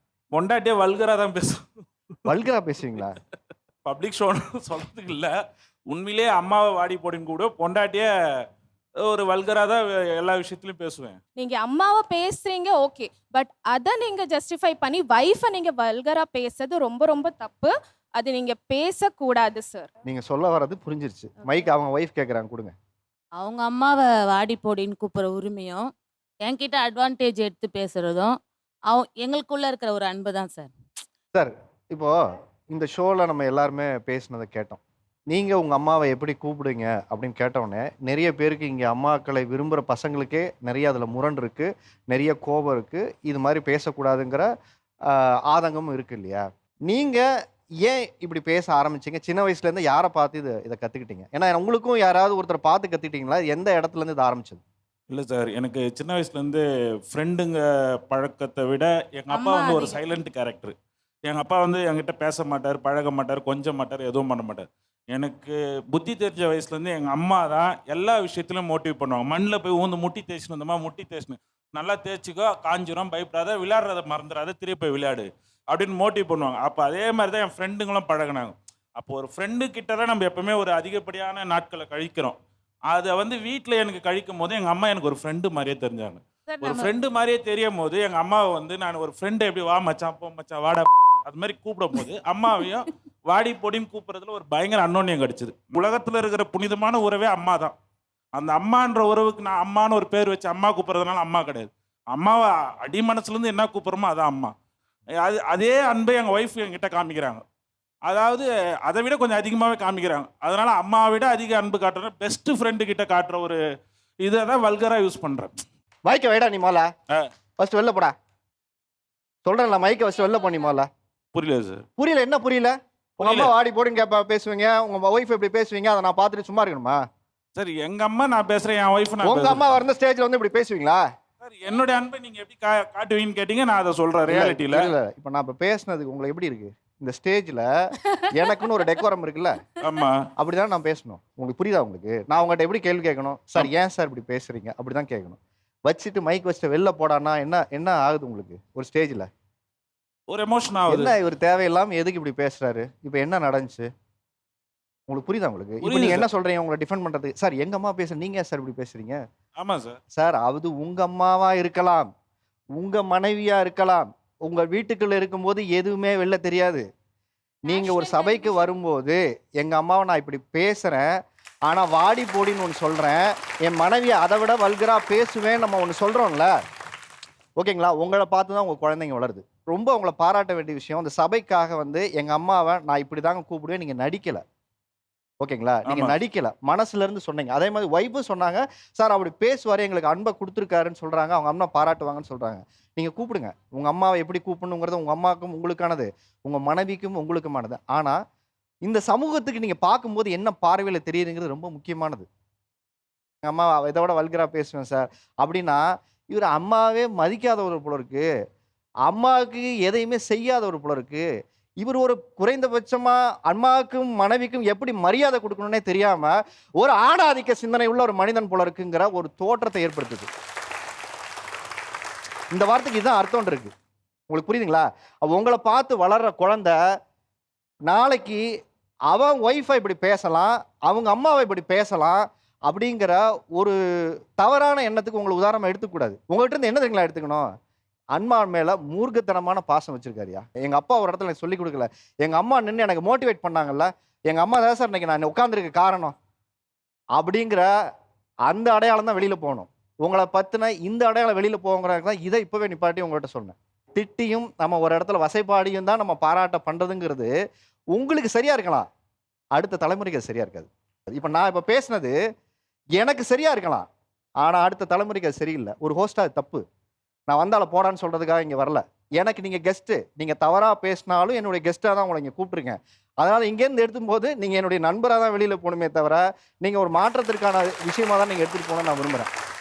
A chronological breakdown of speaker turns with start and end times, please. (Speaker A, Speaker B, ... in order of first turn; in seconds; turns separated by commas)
Speaker A: 0.3-1.6, Speaker B: 2.2-3.2, Speaker A: 3.8-5.3, Speaker A: 5.9-8.1, Speaker A: 9.0-11.2, Speaker C: 11.4-19.9, Speaker B: 20.1-22.7, Speaker D: 23.4-25.9, Speaker D: 26.4-28.4, Speaker D: 28.9-30.7, Speaker B: 31.3-32.1, Speaker B: 32.7-44.5, Speaker B: 45.1-47.2, Speaker B: 47.8-54.6, Speaker A: 55.1-60.7, Speaker D: 59.5-59.8, Speaker A: 61.2-82.4, Speaker A: 82.9-97.7, Speaker A: 98.3-104.5, Speaker A: 105.2-107.4, Speaker A: 108.1-113.6, Speaker A: 114.2-115.6, Speaker B: 116.0-116.9, Speaker B: 117.6-118.1, Speaker B: 119.4-120.9, Speaker A: 121.3-121.8, Speaker B: 122.0-127.0, Speaker A: 123.2-123.5, Speaker A: 127.5-129.8, Speaker B: 129.2-131.0, Speaker A: 131.4-134.9, Speaker B: 134.3-139.6, Speaker A: 139.8-140.3, Speaker B: 140.4-149.3, Speaker A: 150.3-151.1, Speaker B: 150.9-153.9, Speaker B: 155.1-159.2, Speaker A: 155.8-156.3, Speaker A: 159.6-160.0, Speaker B: 160.1-162.1, Speaker B: 162.8-166.8, Speaker B: 167.7-171.1, Speaker B: 171.7-176.5, Speaker B: 177.6-184.4, Speaker B: 185.4-198.2, Speaker A: 185.8-186.2, Speaker B: 198.8-202.2, Speaker B: 203.4-208.3, Speaker B: 209.1-211.2, Speaker B: 211.8-220.3, Speaker B: 222.5-223.7, Speaker B: 224.3-226.8, Speaker B: 227.9-228.4, Speaker B: 229.1-237.5, Speaker B: 238.1-246.1, Speaker B: 247.2-247.7, Speaker B: 248.5-257.3, Speaker B: 257.9-258.9, Speaker B: 259.5-262.1, Speaker B: 263.0-263.9, Speaker B: 264.4-266.6, Speaker B: 267.3-279.3